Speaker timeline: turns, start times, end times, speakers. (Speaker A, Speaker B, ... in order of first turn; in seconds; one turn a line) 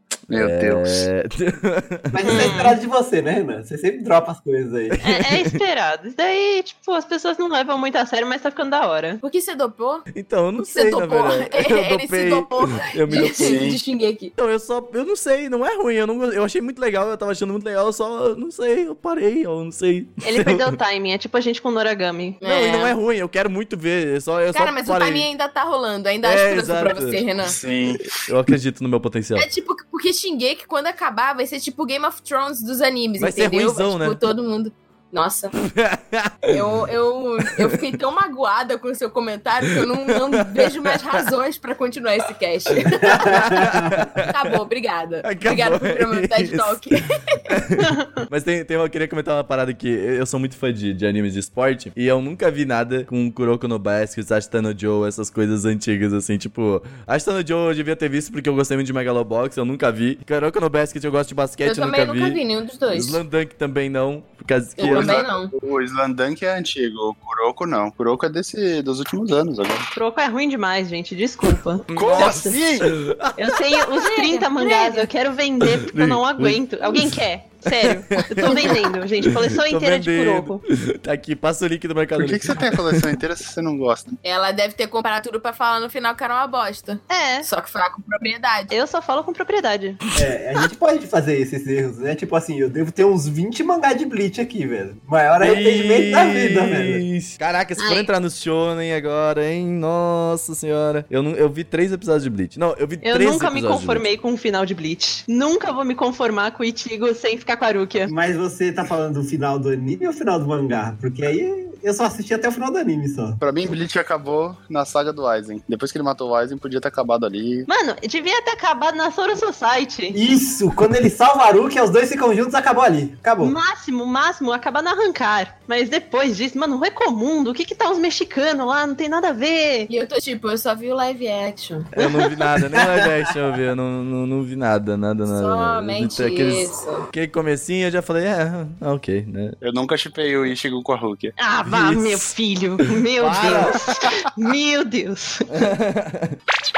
Speaker A: 0.3-1.1
Speaker B: 0.3-2.5
Speaker C: 2.1-5.0
Speaker D: 2.2-2.8
Speaker D: 5.0-9.2
Speaker B: 5.1-5.6
Speaker E: 9.2-10.1
Speaker B: 10.1-13.7
Speaker E: 10.6-14.3
Speaker A: 13.4-13.8
Speaker B: 14.4-20.7
Speaker D: 20.2-22.4
Speaker E: 22.4-22.9
Speaker B: 22.4-25.3
Speaker E: 24.5-27.6
Speaker B: 26.2-27.2
Speaker A: 27.4-28.2
Speaker B: 28.1-29.4
Speaker E: 29.4-35.5
Speaker B: 33.2-34.2
Speaker B: 35.6-36.6
Speaker E: 36.5-43.6
Speaker B: 40.3-41.0
Speaker B: 42.9-44.3
Speaker C: 43.0-44.1
Speaker E: 44.2-47.6
Speaker B: 45.2-65.2
Speaker D: 47.9-48.2
Speaker E: 61.6-63.2
Speaker E: 64.8-65.5
Speaker A: 64.8-69.9
Speaker D: 70.0-72.6
Speaker B: 71.9-74.0
Speaker A: 71.9-72.9
Speaker D: 73.4-80.6
Speaker E: 74.0-75.1
Speaker B: 75.6-83.1
Speaker E: 78.4-78.7
Speaker A: 82.2-84.1
Speaker E: 84.2-88.7
Speaker D: 87.1-87.5
Speaker D: 88.7-90.0
Speaker C: 90.1-97.0
Speaker B: 95.4-104.1
Speaker E: 97.8-98.1
Speaker D: 103.0-108.1
Speaker C: 108.1-113.4
Speaker A: 113.4-117.7
Speaker D: 117.7-120.2
Speaker C: 120.1-123.6
Speaker D: 123.4-129.9
Speaker E: 129.9-131.9
Speaker B: 131.9-139.6
Speaker C: 132.7-133.1
Speaker E: 135.3-137.1
Speaker A: 139.6-141.3
Speaker D: 141.4-145.6
Speaker B: 141.7-142.3
Speaker B: 143.2-143.8
Speaker B: 145.5-146.4